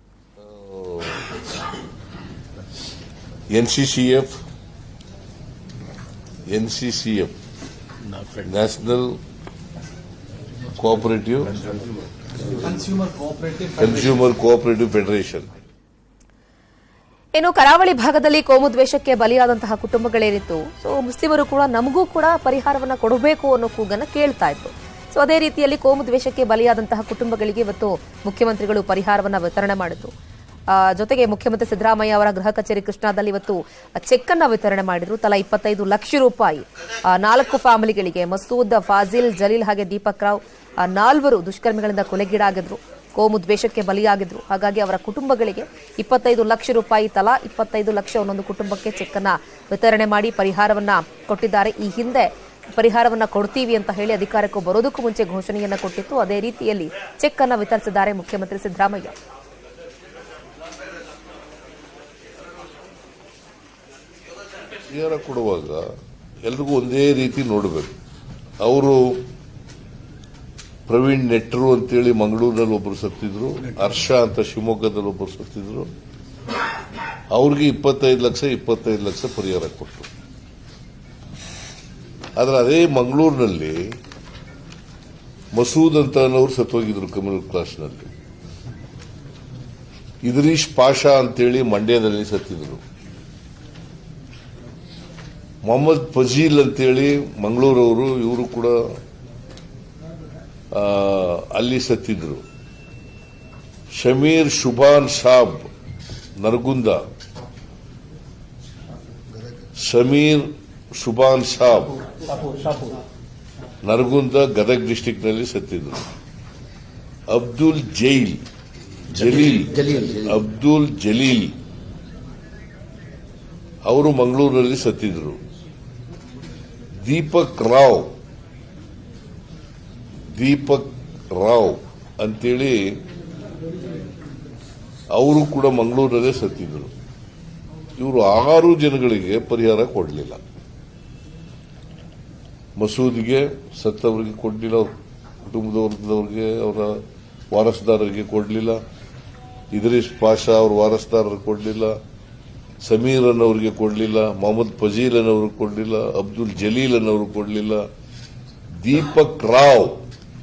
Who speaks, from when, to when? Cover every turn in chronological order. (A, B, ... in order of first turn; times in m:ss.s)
0:00.4-0:01.3 A
0:03.5-0:04.4 A
0:06.5-0:07.4 A
0:08.4-0:09.2 A
0:10.8-0:11.6 A
0:12.6-0:13.4 B
0:13.7-0:15.5 A
0:17.4-0:30.1 C
0:30.7-0:59.1 C
1:04.9-1:05.8 A
1:06.4-1:08.0 A
1:08.6-1:09.2 A
1:10.9-1:15.9 A
1:17.3-1:20.1 A
1:22.4-1:24.0 A
1:25.5-1:28.1 A
1:30.2-1:32.8 A
1:35.6-1:38.8 A
1:40.7-1:42.4 A
1:44.0-1:45.7 A
1:46.4-1:47.0 A
1:49.8-1:52.0 A
1:52.4-1:53.0 B
1:53.8-1:56.1 A
1:57.3-1:58.4 A
1:59.1-2:01.6 A
1:59.1-2:00.3 B
2:03.8-2:05.4 A
2:07.0-2:08.1 A
2:10.4-2:13.0 A
2:15.1-2:16.9 A
2:18.0-2:20.4 A
2:22.8-2:24.9 A
2:25.5-2:27.0 A
2:27.5-2:28.8 A
2:29.7-2:32.0 A
2:32.8-2:37.8 A
2:38.8-2:40.0 A